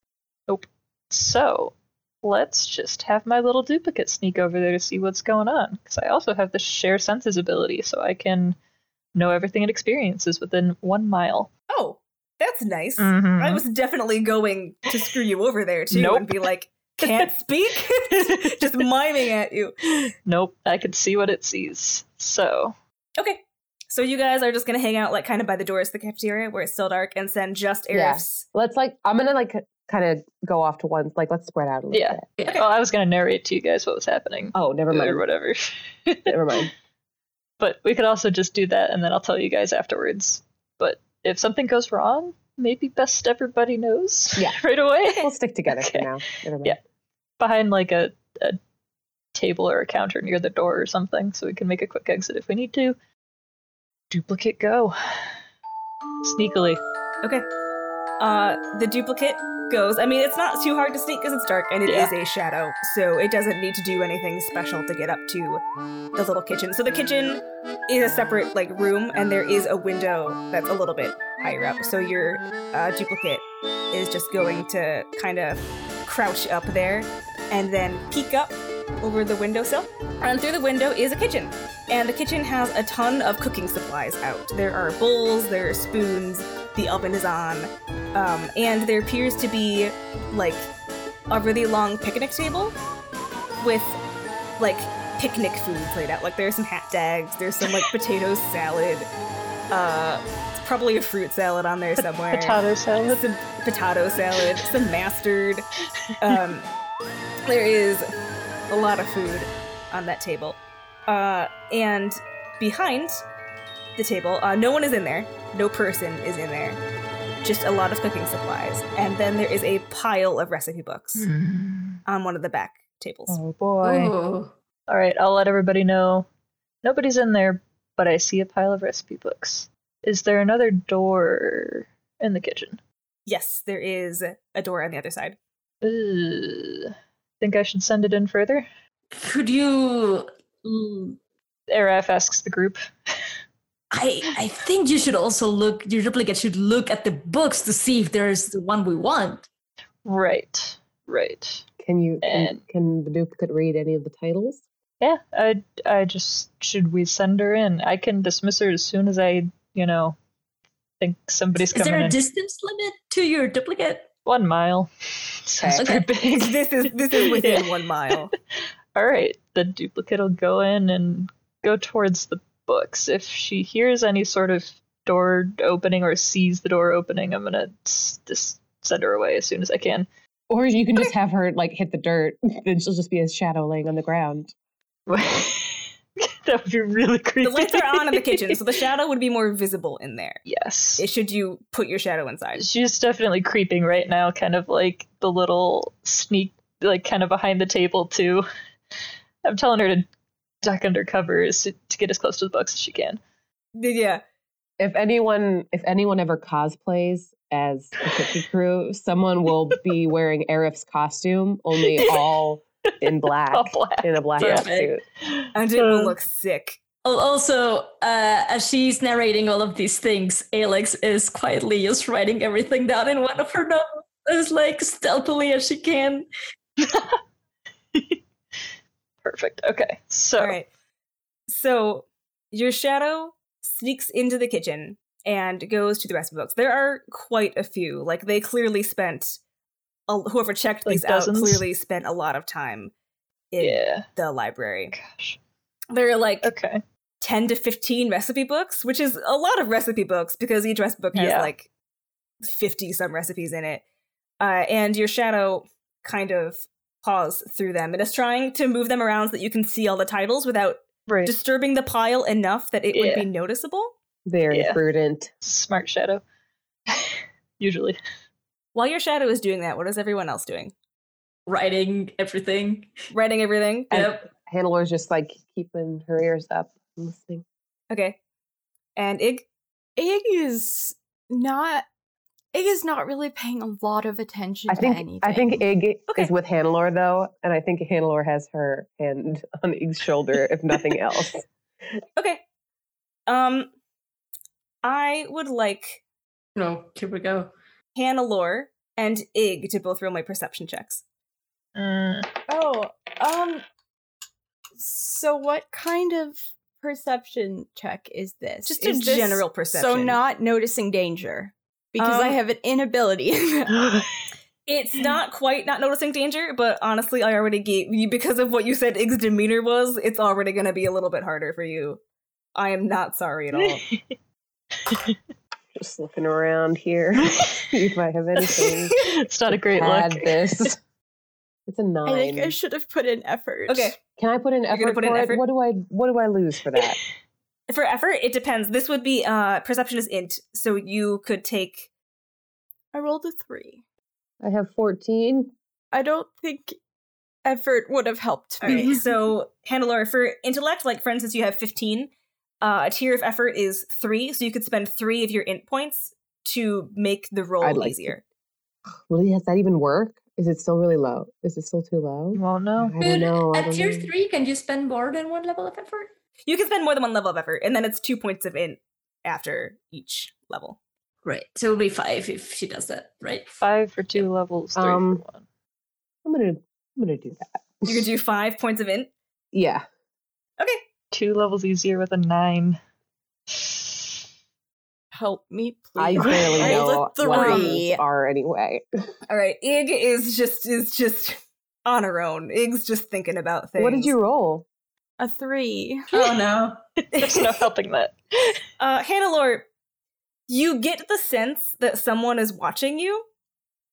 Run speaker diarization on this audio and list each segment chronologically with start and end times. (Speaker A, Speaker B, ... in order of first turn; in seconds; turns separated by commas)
Speaker A: 0.5-8.6, Speaker A: 9.2-11.5, Speaker B: 11.7-19.8, Speaker A: 13.0-13.6, Speaker A: 15.9-16.4, Speaker A: 17.0-17.3, Speaker A: 18.1-18.9, Speaker A: 20.3-22.8, Speaker B: 23.2-28.4, Speaker C: 27.9-32.2, Speaker A: 31.9-36.7, Speaker C: 34.5-35.2, Speaker C: 36.3-36.7, Speaker A: 37.6-46.1, Speaker C: 44.4-46.8, Speaker A: 47.4-48.6, Speaker A: 49.4-53.0, Speaker A: 54.1-55.4, Speaker A: 56.2-56.8, Speaker B: 58.2-65.6, Speaker A: 61.9-62.1, Speaker B: 66.2-90.7, Speaker B: 91.3-92.8, Speaker B: 93.6-94.0, Speaker B: 94.6-99.1, Speaker B: 99.7-105.7, Speaker A: 102.3-103.2, Speaker B: 106.2-106.7, Speaker B: 107.5-108.1, Speaker B: 108.7-113.2, Speaker B: 114.0-116.8, Speaker B: 117.4-121.3, Speaker D: 121.2-122.0, Speaker B: 122.0-123.4, Speaker A: 123.3-124.1, Speaker D: 123.8-124.5, Speaker A: 124.9-126.3, Speaker A: 126.8-132.8, Speaker B: 133.3-135.4, Speaker A: 135.8-138.7, Speaker D: 139.1-141.2, Speaker A: 141.7-142.8, Speaker D: 143.9-149.4, Speaker A: 150.1-151.7, Speaker C: 151.8-154.6, Speaker A: 152.2-152.6, Speaker A: 155.0-160.2, Speaker A: 161.0-162.2, Speaker D: 161.6-164.1, Speaker A: 164.3-167.7, Speaker D: 165.7-166.1, Speaker B: 166.2-168.3, Speaker A: 168.9-180.1, Speaker C: 180.5-184.5, Speaker A: 185.1-188.6, Speaker B: 187.4-190.4, Speaker A: 190.5-191.1, Speaker B: 191.0-192.7, Speaker A: 192.6-198.5, Speaker A: 199.4-200.1, Speaker A: 200.6-203.2, Speaker B: 203.8-204.2, Speaker C: 204.8-215.0, Speaker A: 211.8-212.3, Speaker A: 213.3-214.7, Speaker D: 214.4-214.9, Speaker A: 215.2-216.2, Speaker B: 215.6-216.8, Speaker D: 217.0-226.3, Speaker A: 226.8-227.2, Speaker A: 229.2-230.6, Speaker B: 230.4-230.7, Speaker B: 231.5-239.4, Speaker B: 240.1-242.9, Speaker A: 240.9-241.6, Speaker B: 243.5-244.9, Speaker A: 243.6-244.1, Speaker A: 244.9-245.4, Speaker B: 245.9-246.5, Speaker A: 246.4-246.8, Speaker B: 247.2-251.7, Speaker A: 251.1-251.5, Speaker B: 252.4-253.8, Speaker B: 254.4-263.9, Speaker A: 262.9-263.3, Speaker C: 264.3-265.3, Speaker A: 264.5-264.8, Speaker A: 265.4-266.2, Speaker A: 266.9-268.0, Speaker B: 268.7-270.7, Speaker D: 271.5-272.9, Speaker B: 273.1-274.0, Speaker D: 273.9-274.2, Speaker C: 273.9-277.4, Speaker B: 277.9-278.2, Speaker B: 279.0-279.5, Speaker E: 280.0-281.9, Speaker E: 282.5-285.6, Speaker C: 284.7-291.5, Speaker B: 292.2-292.4, Speaker B: 293.3-293.7, Speaker B: 294.8-296.0, Speaker D: 296.6-297.5, Speaker B: 298.0-301.0, Speaker A: 301.8-302.3, Speaker E: 302.5-303.6, Speaker E: 304.8-313.9, Speaker B: 308.6-310.2, Speaker B: 312.0-312.4, Speaker B: 314.7-322.0, Speaker B: 322.6-323.8, Speaker A: 324.9-325.2, Speaker C: 325.8-330.8, Speaker A: 327.3-327.6, Speaker A: 328.6-330.7, Speaker C: 331.7-332.6, Speaker E: 332.1-334.0, Speaker B: 333.7-334.0, Speaker C: 334.2-337.0, Speaker B: 334.7-335.4, Speaker B: 337.7-341.9, Speaker E: 342.9-343.8, Speaker C: 344.4-345.5, Speaker E: 345.9-346.8, Speaker E: 347.4-349.1, Speaker B: 348.6-358.2, Speaker C: 357.6-358.2, Speaker C: 359.1-364.1, Speaker A: 362.4-363.0, Speaker D: 363.0-366.1, Speaker B: 366.5-370.8, Speaker D: 371.2-373.6, Speaker A: 373.6-375.4, Speaker C: 374.8-375.2, Speaker C: 376.2-378.0, Speaker B: 377.9-379.1, Speaker C: 379.5-379.8, Speaker A: 381.1-382.8, Speaker A: 383.5-383.8, Speaker E: 385.1-388.0, Speaker C: 386.0-388.9, Speaker B: 386.6-387.8, Speaker B: 389.3-394.1, Speaker C: 393.8-394.7, Speaker E: 395.2-396.4, Speaker D: 396.1-396.8, Speaker A: 397.1-398.6, Speaker B: 397.1-397.5, Speaker B: 398.8-399.7, Speaker B: 400.5-403.2